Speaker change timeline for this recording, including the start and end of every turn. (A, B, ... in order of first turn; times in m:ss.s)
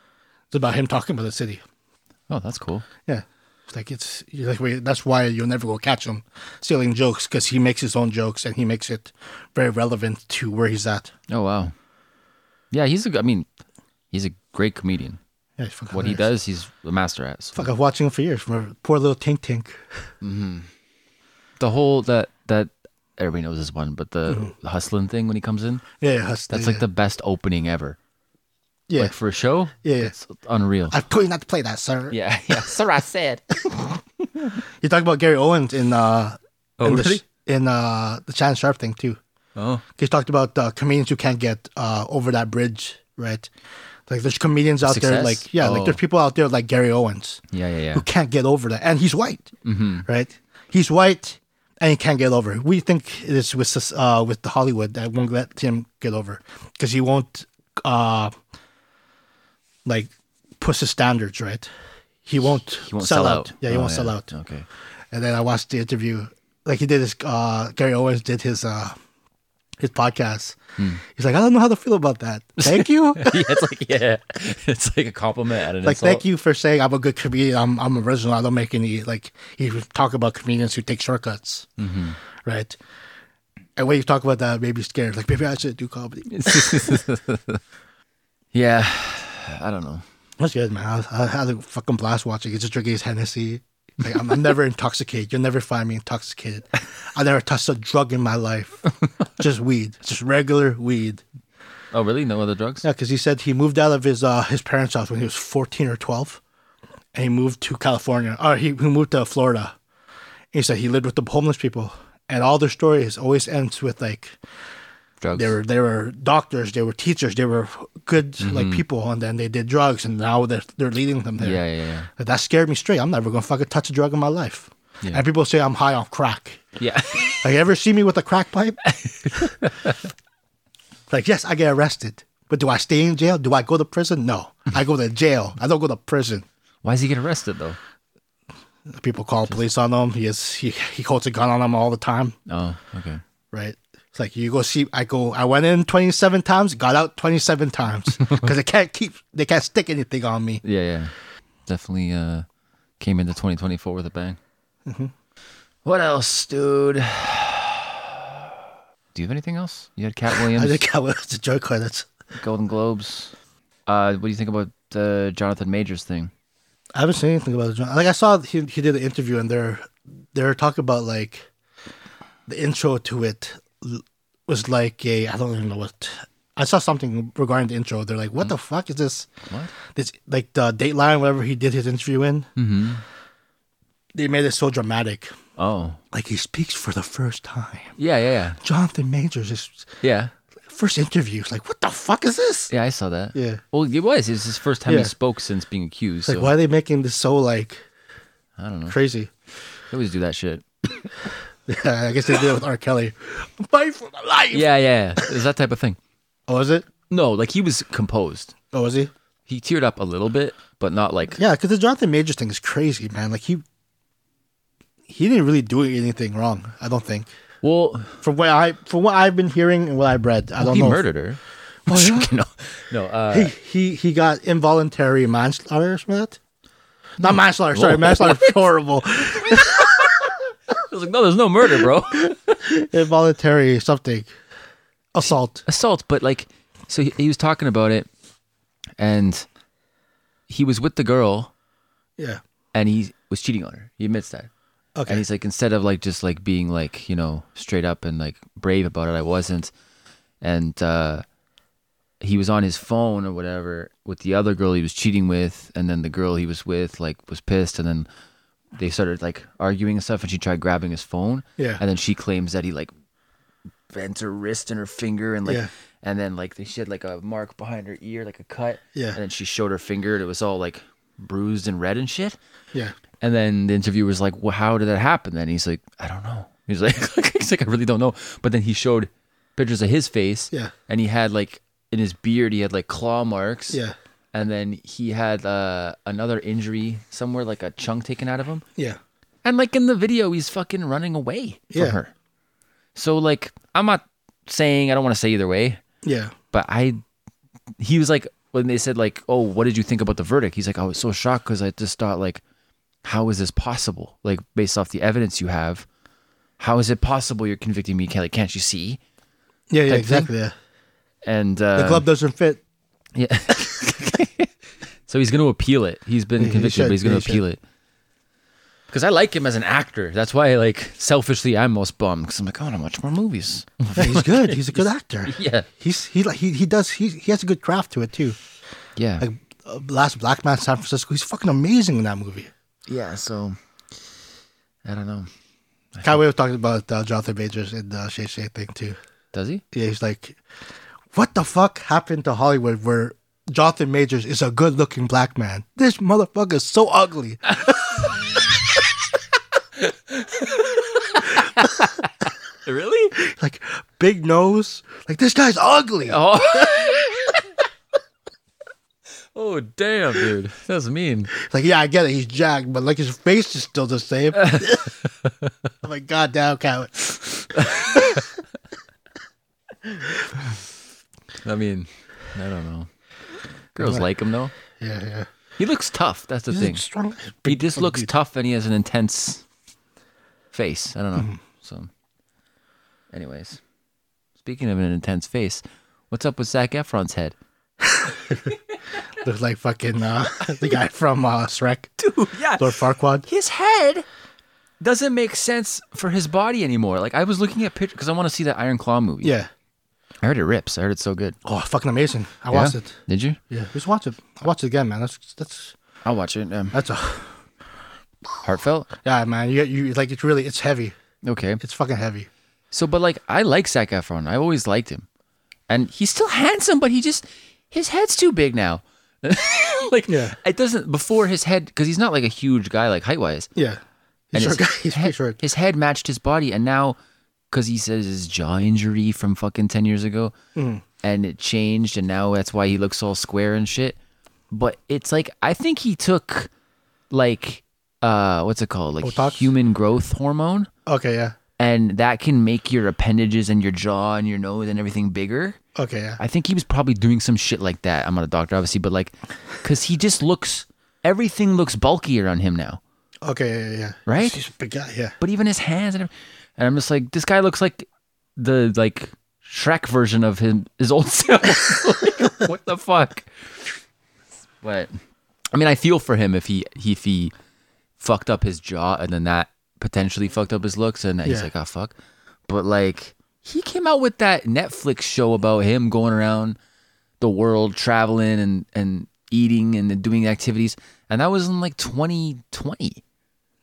0:00.5-0:01.6 A
0:02.3-0:02.9 B
0:03.1-0:11.1 A
0:11.3-0:11.7 B
0:12.7-0:13.5 B
0:14.1-0:15.2 B
0:15.6-0:16.3 A
0:15.9-0:17.7 B
0:17.6-0:20.0 A
0:20.2-0:20.7 B
0:21.6-0:25.8 B
0:26.0-0:26.8 A
0:26.5-0:28.0 B
0:29.0-0:31.0 B
0:29.8-0:30.1 A
0:30.9-0:32.6 A
0:32.1-0:34.0 B
0:34.8-0:39.2 A
0:36.8-0:37.2 B
0:39.6-0:39.8 B
0:40.0-0:43.5 A
0:44.1-0:47.4 A
0:44.8-0:46.0 B
0:47.5-0:48.1 B
0:47.9-0:49.5 A
0:49.6-0:50.1 B
0:50.1-0:58.4 A
0:59.9-1:01.7 A
1:02.3-1:04.3 A
1:02.8-1:04.7 B
1:05.1-1:09.0 A
1:09.8-1:13.6 A
1:12.6-1:16.2 B
1:15.8-1:21.7 A
1:21.8-1:22.2 B
1:22.4-1:22.8 A
1:23.8-1:27.0 A
1:26.3-1:27.6 B
1:28.5-1:30.0 B
1:30.4-1:41.2 A
1:41.9-1:42.8 B
1:42.8-1:46.4 A
1:47.1-1:49.8 A
1:50.5-1:54.4 A
1:55.2-1:55.5 B
1:55.3-2:01.6 A
1:58.4-1:58.8 B
2:01.4-2:02.1 B
2:02.2-2:06.6 A
2:06.8-2:07.4 B
2:07.4-2:08.8 A
2:09.1-2:10.0 B
2:11.1-2:16.4 A
2:16.8-2:17.8 B
2:18.9-2:22.4 A
2:22.5-2:23.2 B
2:23.5-2:30.6 A
2:30.6-2:31.1 B
2:31.7-2:32.4 B
2:33.0-2:34.4 B
2:34.9-2:35.1 A
2:35.8-2:38.1 B
2:39.1-2:40.8 B
2:40.4-2:42.1 A
2:42.4-2:43.3 B
2:43.9-2:46.3 B
2:47.0-2:51.5 A
2:52.5-2:59.3 A
2:59.9-3:02.5 A
3:02.6-3:03.0 B
3:04.2-3:05.4 A
3:05.6-3:06.0 B
3:06.1-3:08.0 A
3:08.0-3:08.6 B
3:08.6-3:09.9 A
3:10.0-3:10.3 B
3:10.7-3:12.7 A
3:12.7-3:16.5 B
3:13.3-3:13.6 A
3:14.9-3:15.1 A
3:16.3-3:17.8 A
3:18.6-3:19.0 B
3:18.9-3:19.3 A
3:19.9-3:20.6 B
3:21.7-3:24.7 A
3:24.5-3:26.0 B
3:26.5-3:26.9 A
3:27.1-3:28.5 B
3:28.7-3:29.1 A
3:29.5-3:31.4 B
3:31.4-3:33.6 A
3:35.1-3:37.3 A
3:37.6-3:38.2 B
3:38.2-3:41.0 A
3:40.6-3:43.5 B
3:41.9-3:42.3 A
3:43.3-3:46.4 A
3:47.2-3:48.7 B
3:47.2-3:50.3 A
3:49.8-3:52.6 B
3:52.3-3:54.3 A
3:55.1-3:55.6 A
3:55.7-3:58.1 B
3:59.0-3:59.5 B
4:00.5-4:01.5 B
4:02.7-4:04.5 B
4:05.0-4:05.2 A
4:05.1-4:09.7 B
4:10.4-4:11.2 B
4:12.2-4:18.1 B
4:18.7-4:22.9 B
4:23.9-4:32.4 B
4:25.4-4:25.7 A
4:33.2-4:43.8 B
4:44.3-4:48.6 B
4:49.4-4:52.1 B
4:51.7-4:52.0 A
4:53.0-4:55.8 B
4:56.0-4:56.3 A
4:56.5-4:57.0 B
4:57.8-5:02.4 B
5:03.0-5:05.9 B
5:06.6-5:09.0 B
5:09.7-5:10.5 A
5:09.9-5:10.3 B
5:11.2-5:12.1 B
5:11.8-5:12.6 A
5:13.2-5:14.5 B
5:15.1-5:17.6 B
5:16.4-5:17.4 A
5:18.9-5:25.7 B
5:24.0-5:28.4 A
5:29.0-5:29.2 B
5:29.2-5:32.5 A
5:32.9-5:33.6 B
5:34.8-5:35.3 B
5:36.0-5:36.2 B
5:36.0-5:39.0 A
5:39.3-5:39.6 B
5:39.7-5:40.4 A
5:41.1-5:48.1 A
5:47.8-5:48.6 B
5:49.8-5:53.2 B
5:51.4-5:51.7 A
5:53.1-5:56.7 A
5:56.1-5:57.5 B
5:59.3-6:01.3 B
6:01.3-6:04.9 A
6:04.4-6:05.3 B
6:05.8-6:08.1 A
6:07.6-6:08.2 B
6:11.4-6:12.9 B
6:13.8-6:14.5 B
6:13.8-6:14.0 A
6:14.7-6:15.3 A
6:15.6-6:16.8 B
6:16.5-6:18.1 A
6:17.5-6:19.4 B
6:20.5-6:21.9 B
6:23.1-6:23.6 B
6:24.4-6:27.4 B
6:27.8-6:28.5 A
6:29.2-6:32.0 A
6:32.0-6:34.0 B
6:32.6-6:33.3 A
6:34.8-6:39.3 B
6:39.2-6:39.5 A
6:40.2-6:41.4 B
6:41.4-6:43.0 A
6:42.5-6:43.4 B
6:43.5-6:45.8 A
6:46.0-6:46.7 B
6:46.7-6:47.4 A
6:48.4-6:48.9 B
6:49.0-6:51.0 A
6:51.2-6:51.6 B
6:51.6-6:52.3 A
6:52.7-6:55.1 B
6:55.7-7:03.5 B
7:00.1-7:00.4 A
7:04.3-7:05.4 A
7:04.4-7:07.0 B
7:07.5-7:10.3 B
7:10.6-7:10.8 A
7:11.0-7:14.0 B
7:14.5-7:16.5 B
7:17.1-7:20.7 B
7:19.0-7:19.5 A
7:20.9-7:21.4 A
7:21.6-7:25.6 B
7:25.8-7:26.2 A
7:26.2-7:32.8 B
7:33.2-7:35.2 A
7:34.1-7:34.4 B
7:35.2-7:37.9 B
7:38.4-7:43.5 B
7:44.6-7:44.9 B
7:45.5-7:47.3 B
7:48.0-7:51.9 B
7:52.5-7:56.6 B
7:57.2-8:03.0 B